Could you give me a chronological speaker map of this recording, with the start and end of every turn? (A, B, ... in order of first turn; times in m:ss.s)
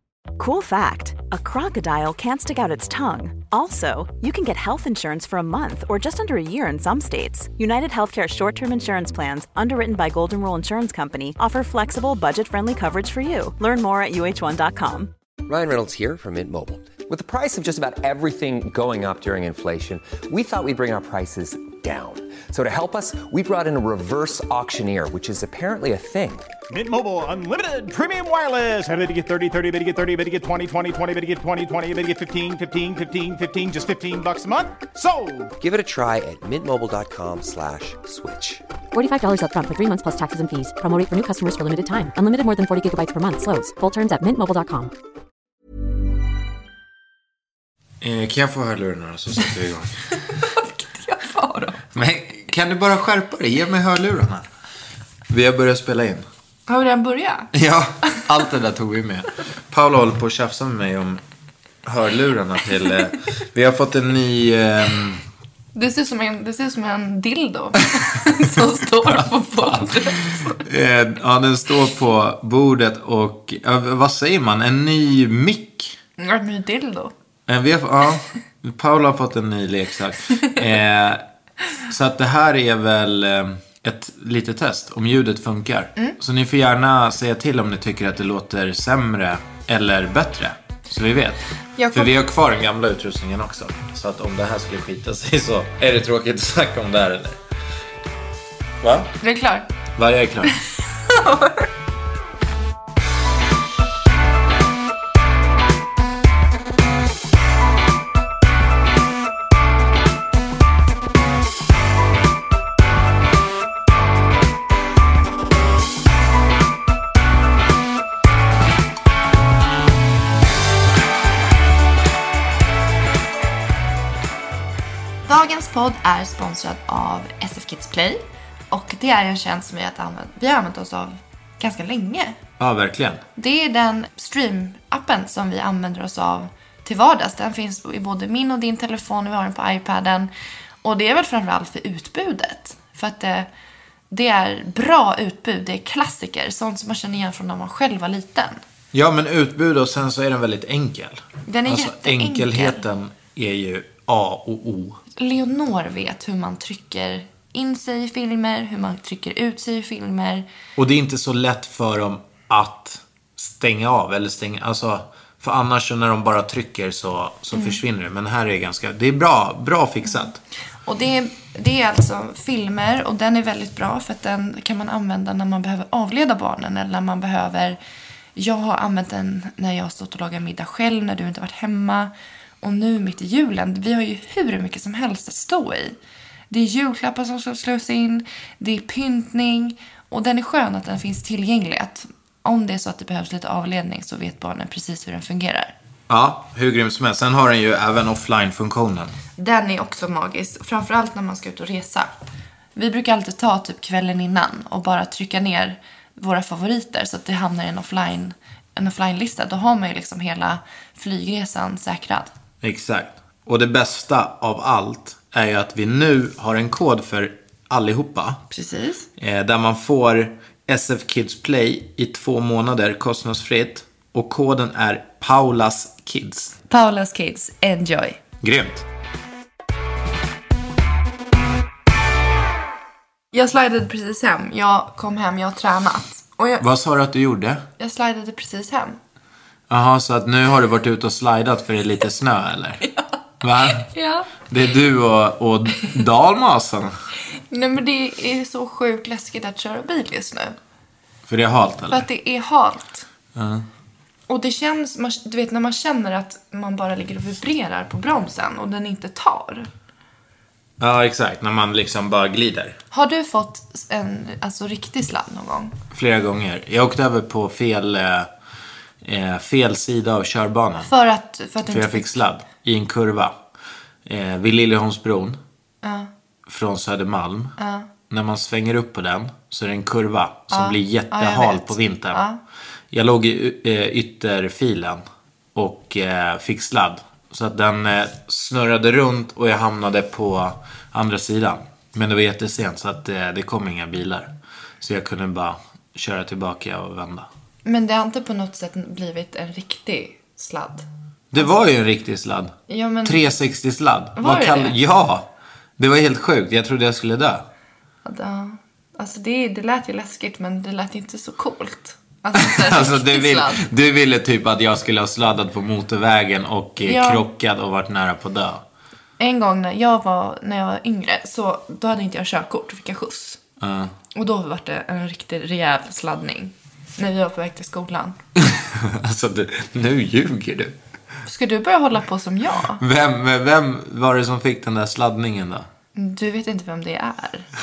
0:00.4-0:15.1 A
0:15.4-0:26.5 B
0:26.7-0:35.5 C
0:35.6-0:38.6 B
0:38.9-0:44.9 D
0:48.0-0:50.0 E
0:50.3-0:51.9 F
0:51.9-0:54.4 E
0:55.3-0:56.3 E
0:56.7-0:57.5 F
0:57.5-1:01.2 E
1:01.8-1:05.2 E
1:05.8-1:10.6 F
1:09.1-1:16.0 E
1:16.2-1:17.1 F
1:17.5-1:21.2 E
1:21.9-1:31.4 E
1:31.8-1:32.1 F
1:31.9-1:37.4 E
1:38.8-1:39.1 E
1:39.2-1:39.7 F
1:40.0-1:40.5 E
1:41.1-1:41.7 F
2:05.3-2:12.4 F
2:12.6-2:13.2 E
2:13.4-2:20.3 F
2:20.8-2:23.5 F
2:24.1-2:28.6 F
2:28.9-2:35.0 E
2:31.5-2:32.8 F
2:35.2-2:40.5 F
2:40.8-2:50.4 E
2:47.5-2:47.8 F
2:50.9-2:57.8 F
2:58.4-3:06.0 F
3:06.5-3:15.7 F
3:16.1-3:19.2 E
3:19.4-3:32.3 F
3:32.6-3:38.4 E
3:38.5-3:39.1 F
3:39.2-3:46.5 E
3:46.7-3:48.2 F
3:48.4-3:48.8 E
3:53.3-3:56.6 F
3:56.6-3:57.6 E
3:57.8-3:59.0 F
3:59.7-4:02.9 E
4:03.4-4:07.0 E
4:03.8-4:04.3 F
4:07.5-4:10.6 F
4:11.3-4:12.1 E
4:11.9-4:13.0 F
4:13.4-4:13.7 E
4:14.3-4:19.7 F
4:20.8-4:22.8 E
4:22.9-4:25.8 F
4:25.9-4:28.3 E
4:29.0-4:30.9 E
4:30.8-4:32.1 F
4:31.6-4:33.4 E
4:34.1-4:35.4 E
4:35.8-4:36.1 F
4:36.5-4:37.6 E
4:37.6-4:37.9 F
4:38.1-4:42.2 E
4:40.5-4:42.4 F
4:42.9-4:45.0 E
4:45.6-4:57.3 E
4:57.6-5:01.5 F
5:01.3-5:05.3 E
5:02.7-5:03.3 F
5:04.2-5:04.8 F
5:05.8-5:07.5 E
5:08.0-5:13.7 F
5:12.4-5:18.6 E
5:16.8-5:17.2 F
5:19.2-5:23.4 F
5:23.6-5:23.9 E
5:24.1-5:28.2 F
5:28.4-5:30.8 E
5:31.2-5:32.8 F
5:32.8-5:35.7 E
5:36.0-5:37.5 F